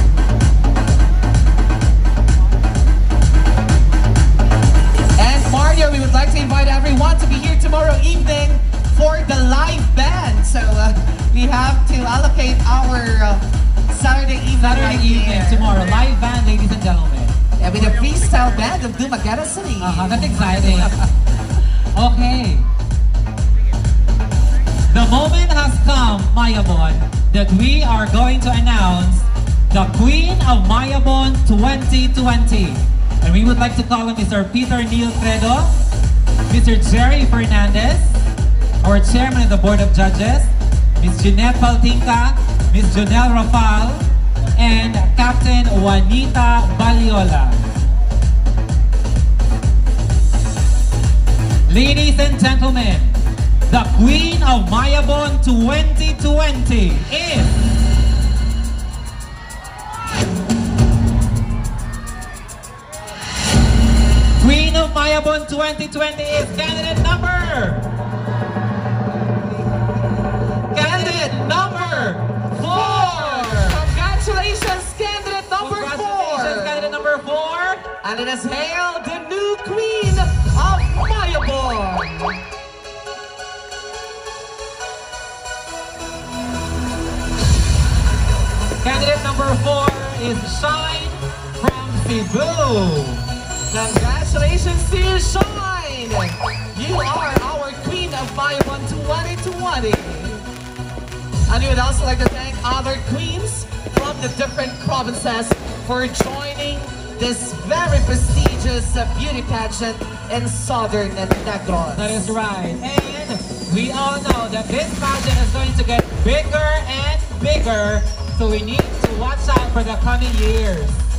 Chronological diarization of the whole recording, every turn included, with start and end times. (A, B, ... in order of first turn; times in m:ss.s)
0:05.2-0:16.1 A
0:14.6-0:17.4 B
0:17.6-0:21.0 A
0:19.8-0:21.0 B
0:21.9-0:22.7 B
0:24.9-0:35.8 B
0:36.5-0:38.2 B
0:38.8-0:44.0 B
0:44.6-0:47.6 B
0:51.7-0:57.6 B
1:04.4-1:07.9 B
1:10.7-1:13.8 B
1:10.7-1:16.8 A
1:15.6-1:17.9 B
1:18.0-1:22.4 A
1:28.8-1:33.2 B
1:33.7-1:40.4 A
1:41.5-1:52.2 A
1:52.0-2:01.0 B